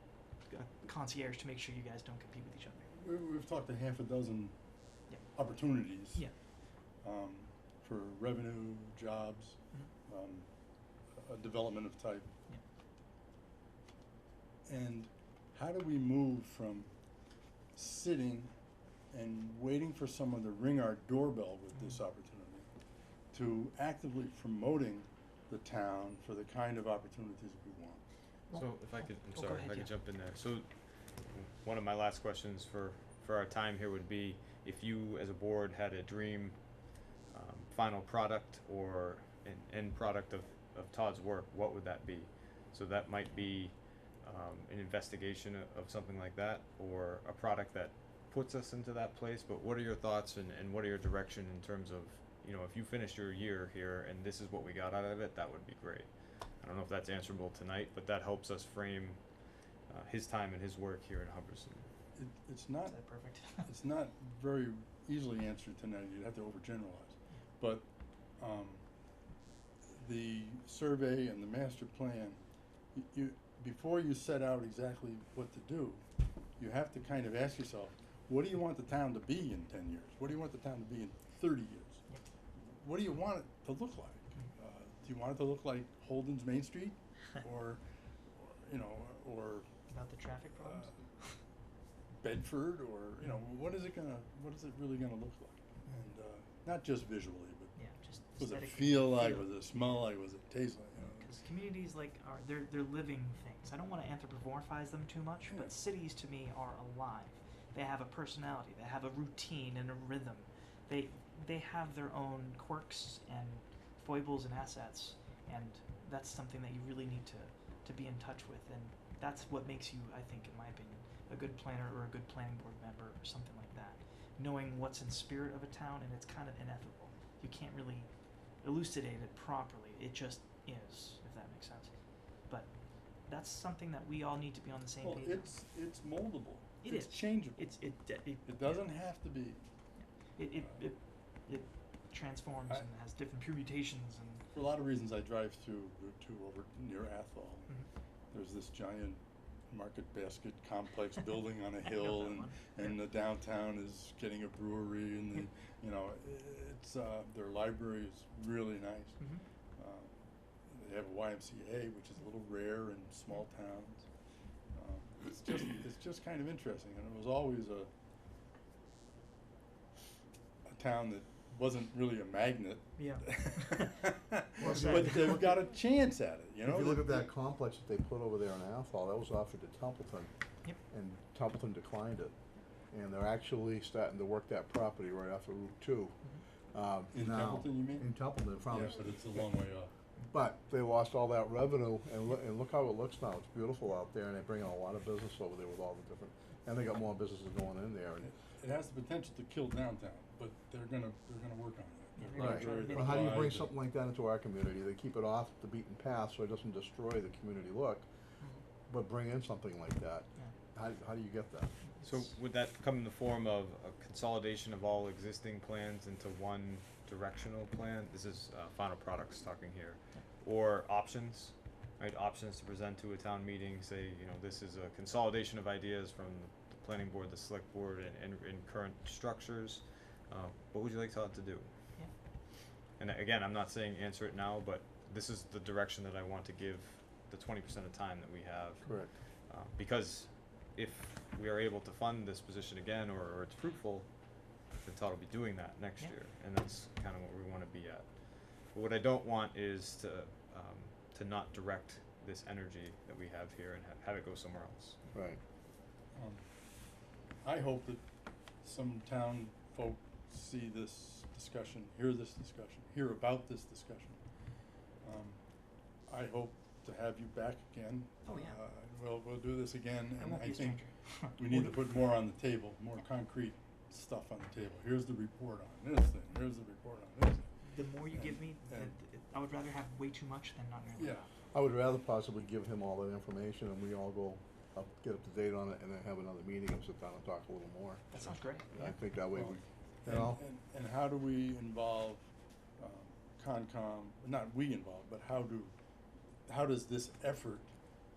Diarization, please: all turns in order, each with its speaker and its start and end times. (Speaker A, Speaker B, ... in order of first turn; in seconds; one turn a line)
Speaker A: 0.4-2.9
Speaker B: 2.9-4.5
Speaker B: 5.3-6.2
Speaker A: 6.0-6.3
Speaker B: 7.0-10.5
Speaker B: 11.1-12.3
Speaker B: 14.7-16.9
Speaker B: 17.7-18.5
Speaker B: 19.1-22.7
Speaker A: 21.7-22.0
Speaker B: 23.3-28.0
Speaker A: 28.5-29.9
Speaker C: 28.5-30.7
Speaker C: 31.3-36.6
Speaker C: 37.3-59.2
Speaker C: 59.9-61.9
Speaker B: 62.1-63.0
Speaker A: 62.9-63.7
Speaker B: 63.6-67.9
Speaker B: 68.4-68.8
Speaker B: 69.9-72.4
Speaker B: 72.9-76.0
Speaker B: 76.6-82.0
Speaker B: 82.6-87.8
Speaker B: 88.3-89.7
Speaker A: 89.9-91.4
Speaker B: 90.6-91.0
Speaker B: 92.2-97.8
Speaker A: 97.8-99.5
Speaker B: 98.4-101.3
Speaker A: 101.0-128.1
Speaker A: 128.6-131.9
Speaker A: 132.5-132.7
Speaker A: 133.2-135.5
Speaker B: 135.0-137.8
Speaker A: 136.8-138.9
Speaker B: 138.4-139.6
Speaker A: 140.0-144.5
Speaker B: 144.5-147.7
Speaker B: 148.3-159.2
Speaker A: 151.8-153.0
Speaker A: 159.2-159.4
Speaker B: 159.8-160.1
Speaker B: 160.7-164.1
Speaker B: 164.7-167.9
Speaker B: 170.7-177.3
Speaker A: 173.0-174.0
Speaker A: 174.6-175.6
Speaker D: 174.6-175.2
Speaker D: 176.6-180.3
Speaker D: 180.9-182.3
Speaker D: 182.9-186.2
Speaker D: 186.7-189.1
Speaker B: 187.1-188.1
Speaker B: 188.7-189.9
Speaker D: 190.3-198.3
Speaker B: 198.2-203.7
Speaker A: 202.2-203.4
Speaker D: 202.3-208.1
Speaker D: 208.9-211.7
Speaker A: 211.9-212.2
Speaker C: 212.0-232.0
Speaker C: 233.0-255.0
Speaker D: 238.8-239.2
Speaker D: 255.1-255.4
Speaker B: 256.1-256.4
Speaker B: 257.4-258.0
Speaker B: 258.6-264.2
Speaker B: 265.0-265.4
Speaker B: 266.1-270.9
Speaker A: 268.2-268.6
Speaker A: 270.2-271.9
Speaker B: 271.4-277.5
Speaker A: 277.6-281.3
Speaker B: 278.1-278.9
Speaker B: 281.0-281.2
Speaker D: 281.5-288.2
Speaker A: 288.1-288.9
Speaker D: 288.7-290.4
Speaker B: 289.3-292.3
Speaker B: 292.8-295.7
Speaker B: 296.5-297.7